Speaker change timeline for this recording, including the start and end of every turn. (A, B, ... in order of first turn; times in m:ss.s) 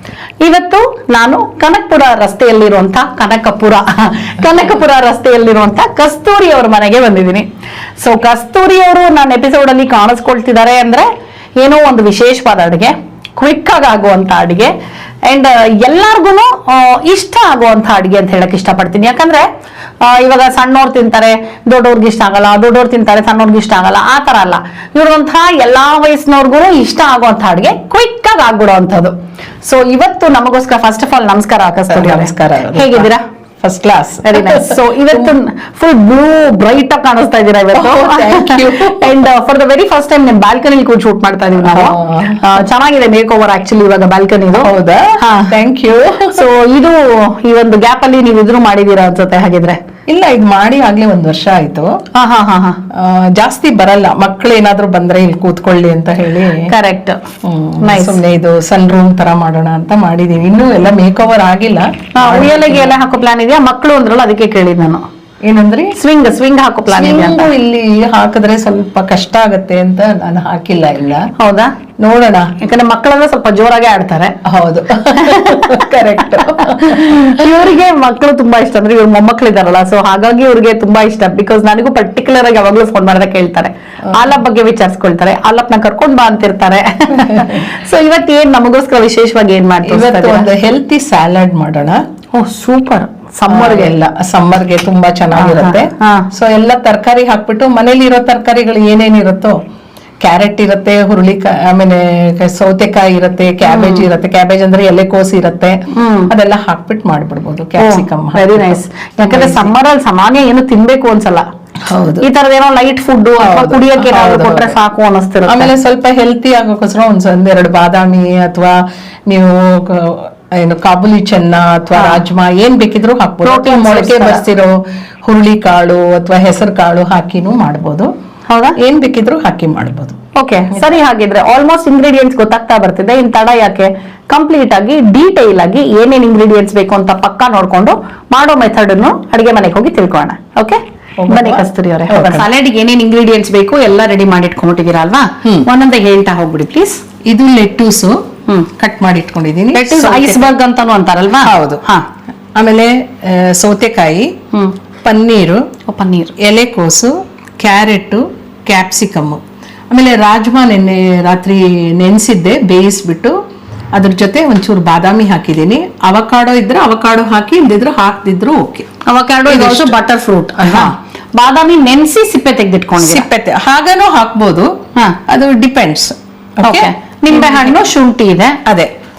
0:00.4-0:07.5 A
0:08.0-0:11.1 A
0:11.6-0:14.7 A
0:15.2-0:19.5 A
0:20.0-0:33.2 A
0:31.9-0:33.1 B
0:33.6-0:35.3 B
0:34.2-0:44.7 A
0:37.7-0:39.2 B
0:41.6-0:42.6 B
0:44.5-0:46.4 B
0:45.4-0:49.8 A
0:50.1-0:52.0 B
0:52.1-0:52.8 A
0:52.9-0:56.7 B
0:56.6-0:57.2 A
0:57.4-1:02.9 B
0:57.8-0:58.2 A
1:02.1-1:05.0 A
1:05.4-1:05.9 B
1:05.9-1:07.5 A
1:06.9-1:11.2 B
1:11.4-1:11.8 A
1:12.0-1:12.5 B
1:12.6-1:14.4 A
1:14.4-1:17.5 B
1:15.1-1:30.5 A
1:27.3-1:27.6 B
1:29.8-1:32.0 B
1:32.3-1:33.9 A
1:33.5-1:39.6 B
1:35.4-1:36.3 A
1:40.2-1:49.7 B
1:43.6-1:44.1 A
1:45.9-1:46.3 A
1:47.8-1:51.4 A
1:51.8-1:52.3 B
1:52.2-1:55.7 A
1:53.4-1:54.8 B
1:55.5-2:08.1 B
2:01.9-2:02.2 A
2:03.4-2:04.4 A
2:08.5-2:08.8 A
2:08.8-2:10.2 B
2:10.4-2:27.0 A
2:21.2-2:22.4 B
2:27.2-2:28.2 B
2:28.8-2:30.5 B
2:29.7-2:32.0 A
2:31.4-2:31.8 B
2:32.6-2:34.3 B
2:35.0-2:35.6 B
2:35.9-2:36.3 A
2:36.4-2:43.4 B
2:43.9-2:48.9 B
2:49.1-2:53.3 A
2:49.5-2:50.0 B
2:50.6-2:50.9 B
2:53.0-2:54.7 B
2:55.3-2:57.8 B
2:56.6-2:58.6 A
2:58.6-2:58.9 B